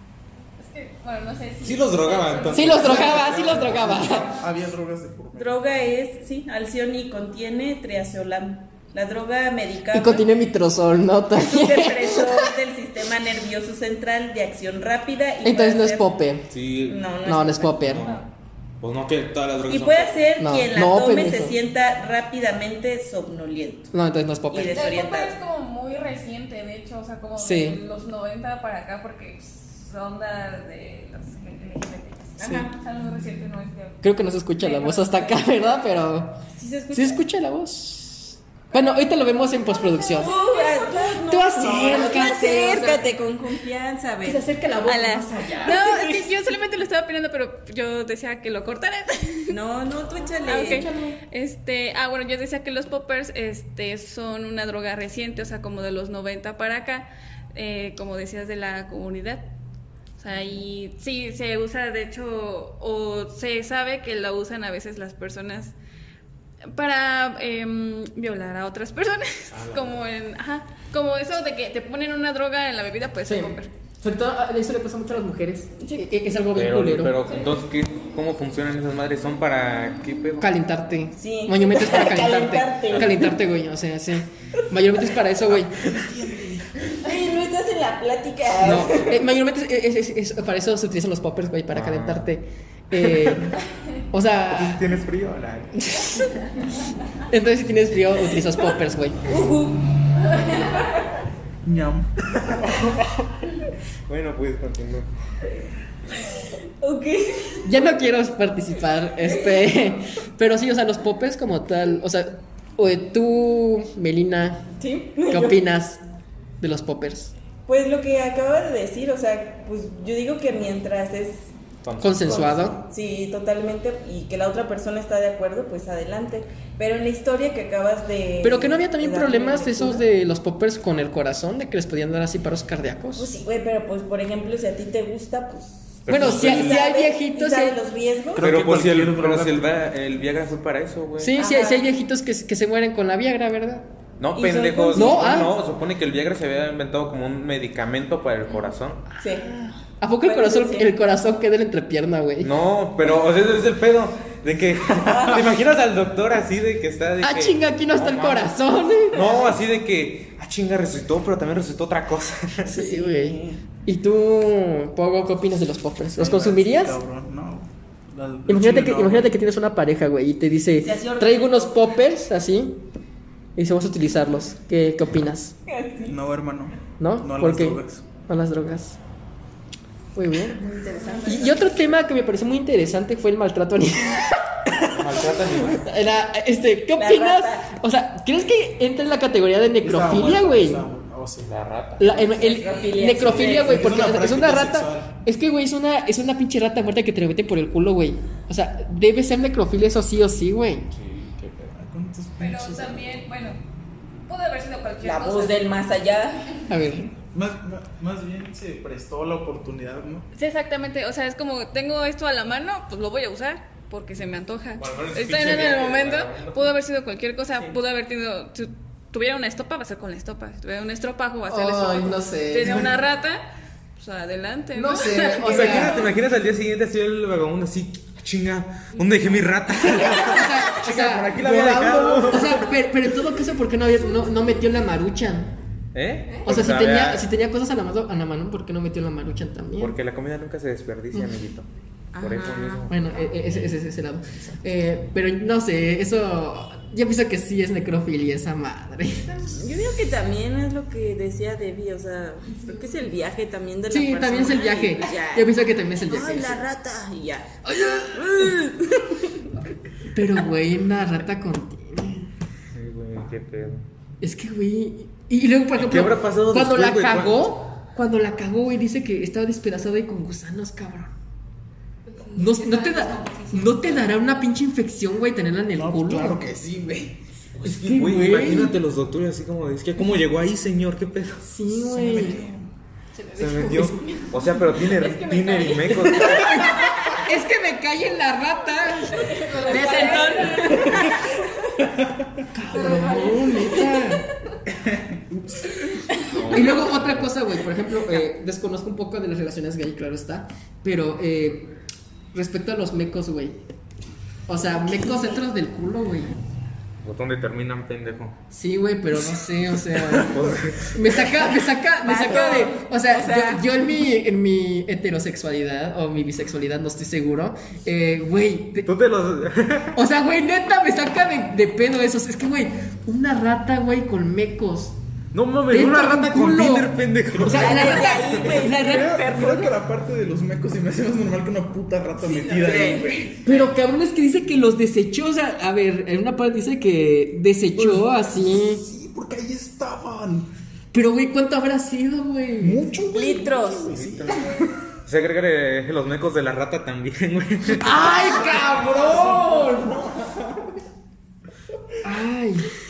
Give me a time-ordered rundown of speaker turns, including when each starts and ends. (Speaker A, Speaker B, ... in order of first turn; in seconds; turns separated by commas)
Speaker A: 0.6-3.5, Speaker B: 1.6-4.0, Speaker C: 2.5-4.3, Speaker D: 2.9-5.6, Speaker E: 5.3-10.3, Speaker C: 9.9-12.5, Speaker E: 11.3-16.1, Speaker C: 15.4-16.5, Speaker B: 16.5-17.1, Speaker E: 16.9-17.9, Speaker C: 17.2-18.1, Speaker B: 17.8-20.2, Speaker E: 19.7-23.9, Speaker C: 20.4-21.6, Speaker C: 23.9-24.9, Speaker E: 24.5-25.4, Speaker A: 24.7-34.0, Speaker C: 27.4-27.8, Speaker E: 32.4-32.7, Speaker C: 32.4-32.7, Speaker C: 34.0-40.3, Speaker A: 34.6-35.4, Speaker E: 36.5-37.2, Speaker A: 39.6-41.2, Speaker E: 40.2-44.4, Speaker C: 41.2-43.0, Speaker A: 41.8-43.1, Speaker C: 44.2-45.9, Speaker A: 44.9-49.6, Speaker E: 45.6-46.2, Speaker E: 49.5-50.9, Speaker A: 50.4-59.5, Speaker C: 50.5-51.2, Speaker A: 60.2-65.7, Speaker A: 66.7-73.7, Speaker B: 69.5-70.0, Speaker C: 73.2-77.2, Speaker B: 76.5-80.5, Speaker A: 77.3-77.5, Speaker C: 80.4-85.9, Speaker E: 81.2-83.2, Speaker B: 82.9-83.3, Speaker D: 85.8-86.7, Speaker E: 87.0-89.2, Speaker C: 88.6-93.6, Speaker B: 91.7-92.3, Speaker C: 94.1-94.8, Speaker B: 94.5-95.9, Speaker C: 97.3-99.4, Speaker E: 99.2-99.8, Speaker D: 101.6-102.9, Speaker B: 104.1-105.1, Speaker E: 106.8-107.7, Speaker C: 107.6-114.7, Speaker E: 109.4-109.7, Speaker E: 114.8-115.6, Speaker C: 115.2-116.0, Speaker C: 116.6-117.3, Speaker E: 117.7-121.5, Speaker B: 121.8-122.7, Speaker C: 122.0-122.8, Speaker D: 122.5-122.8, Speaker E: 122.9-130.0, Speaker C: 128.4-133.3, Speaker E: 133.2-138.5, Speaker B: 136.0-136.8, Speaker C: 136.1-137.8, Speaker D: 138.3-139.6, Speaker B: 138.4-141.4, Speaker C: 141.2-143.8, Speaker E: 141.4-141.8, Speaker B: 144.2-149.1, Speaker E: 144.3-145.3, Speaker C: 144.9-145.5, Speaker E: 149.2-149.5, Speaker C: 149.2-152.5, Speaker E: 150.2-150.9, Speaker B: 152.4-162.8, Speaker E: 155.0-155.5, Speaker C: 157.2-159.2, Speaker C: 162.7-167.0, Speaker E: 162.7-163.6, Speaker D: 166.2-169.3, Speaker C: 168.5-172.8, Speaker E: 170.8-171.9, Speaker C: 173.6-175.6, Speaker E: 175.7-176.2, Speaker D: 176.1-178.1, Speaker C: 177.0-179.0, Speaker C: 180.1-180.6, Speaker E: 180.5-181.7, Speaker C: 181.2-184.3, Speaker B: 184.9-185.9, Speaker C: 185.2-190.8, Speaker E: 186.9-187.7, Speaker D: 189.8-191.5, Speaker B: 191.4-192.4, Speaker C: 192.0-200.9, Speaker E: 192.2-193.9, Speaker D: 193.4-195.1, Speaker B: 200.9-201.7, Speaker D: 201.7-203.0, Speaker A: 202.4-203.6, Speaker A: 204.3-205.8, Speaker E: 205.0-206.6, Speaker C: 206.7-207.1, Speaker D: 207.1-210.2, Speaker A: 210.3-223.4, Speaker B: 214.8-216.7, Speaker C: 221.5-222.9, Speaker A: 223.9-226.1, Speaker C: 224.7-226.1, Speaker B: 225.3-232.8, Speaker C: 229.9-235.5, Speaker B: 235.9-237.3, Speaker C: 236.4-239.9, Speaker B: 239.8-243.7, Speaker E: 242.1-242.9, Speaker C: 242.9-249.6, Speaker E: 249.5-255.5, Speaker C: 253.9-256.6, Speaker E: 256.0-257.5, Speaker C: 257.6-258.6, Speaker E: 258.1-259.3, Speaker C: 260.1-262.3, Speaker B: 262.7-263.9, Speaker C: 264.2-271.1, Speaker B: 265.7-267.5, Speaker A: 272.1-274.1, Speaker C: 272.3-276.4, Speaker D: 275.7-277.2, Speaker B: 277.5-281.5, Speaker C: 277.6-278.7, Speaker D: 277.8-278.5, Speaker C: 281.5-282.4, Speaker D: 281.6-282.7, Speaker A: 283.2-287.0, Speaker B: 283.3-287.0, Speaker C: 286.7-291.1, Speaker A: 289.1-291.7, Speaker E: 289.5-291.2, Speaker D: 291.9-292.4, Speaker C: 292.5-294.2, Speaker A: 292.7-294.2, Speaker D: 294.7-295.8, Speaker B: 296.3-297.3, Speaker C: 296.5-301.8, Speaker C: 302.3-303.6, Speaker C: 304.5-306.4, Speaker B: 307.0-308.4, Speaker C: 308.5-318.9, Speaker B: 310.2-311.3, Speaker E: 312.0-313.6, Speaker B: 318.8-320.0, Speaker C: 319.9-325.0, Speaker B: 325.3-328.2, Speaker C: 325.7-329.2, Speaker E: 327.5-329.8, Speaker D: 328.1-333.7, Speaker E: 332.2-333.2, Speaker C: 333.4-338.8, Speaker D: 337.8-340.5, Speaker C: 340.9-342.8, Speaker D: 342.6-344.7, Speaker E: 343.1-343.9, Speaker B: 343.9-348.0, Speaker C: 347.8-350.1, Speaker D: 347.9-349.7, Speaker C: 352.0-352.7